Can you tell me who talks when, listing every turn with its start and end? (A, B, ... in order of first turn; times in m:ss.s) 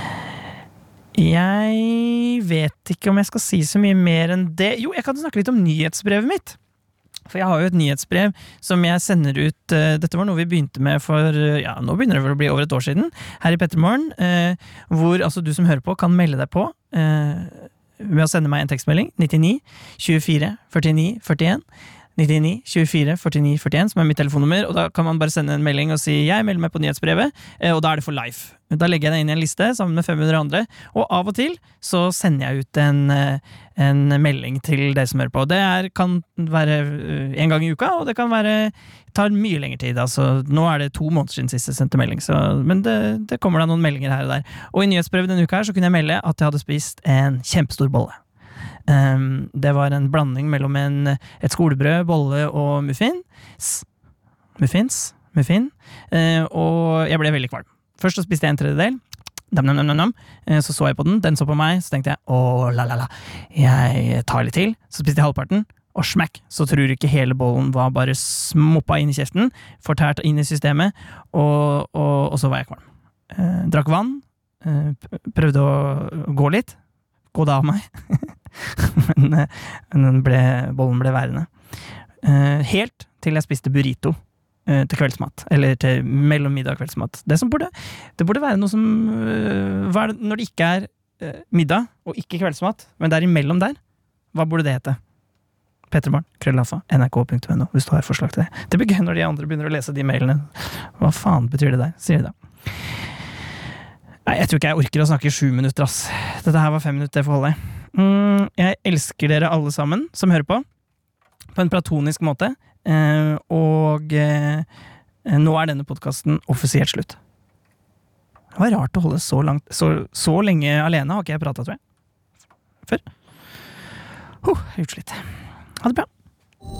0:01.1-0:06.6 A
0:07.3-0:21.6 A
0:22.2-0:48.2 A
0:48.9-0:53.8 A
0:54.6-0:59.0 A
0:59.5-1:16.8 A
1:17.3-1:21.5 A
1:22.2-1:33.8 A
1:34.3-1:35.0 A
1:35.9-1:42.3 A
1:44.2-1:50.6 A
1:51.5-1:54.7 A
1:55.2-1:57.2 A
1:58.5-2:01.8 A
2:04.4-2:05.2 A
2:05.8-2:06.1 A